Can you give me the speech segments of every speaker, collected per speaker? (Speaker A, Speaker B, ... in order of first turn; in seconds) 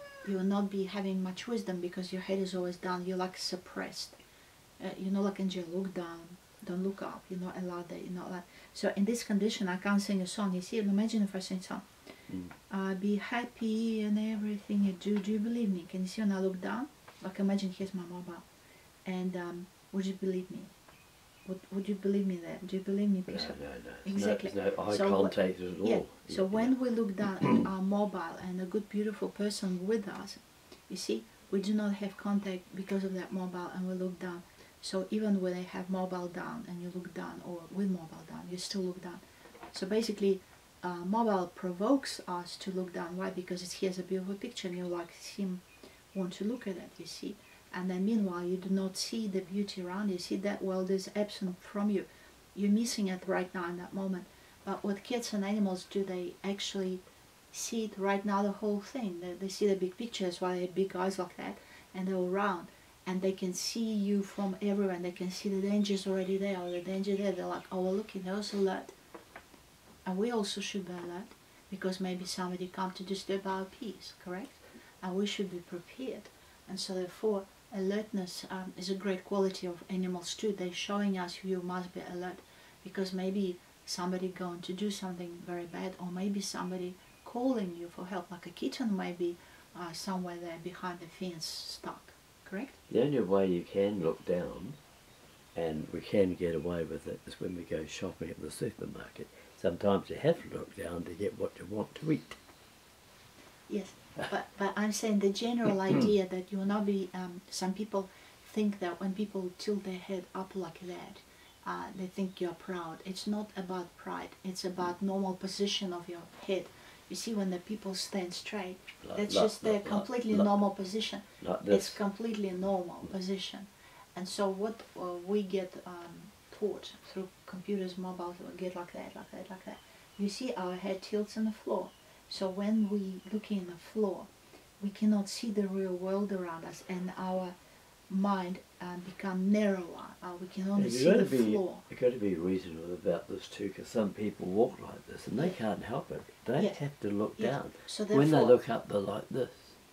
Speaker A: 0.2-4.2, 4.8-11.8, 12.7-18.4, 19.0-20.7, 21.4-39.2, 39.7-68.9, 70.0-92.8, 103.7-137.6, 138.1-141.8, 146.6-148.6
Speaker B: 23.3-26.7, 27.2-27.6, 92.9-94.8, 95.5-102.4, 119.0-120.6, 121.4-122.0, 140.8-149.8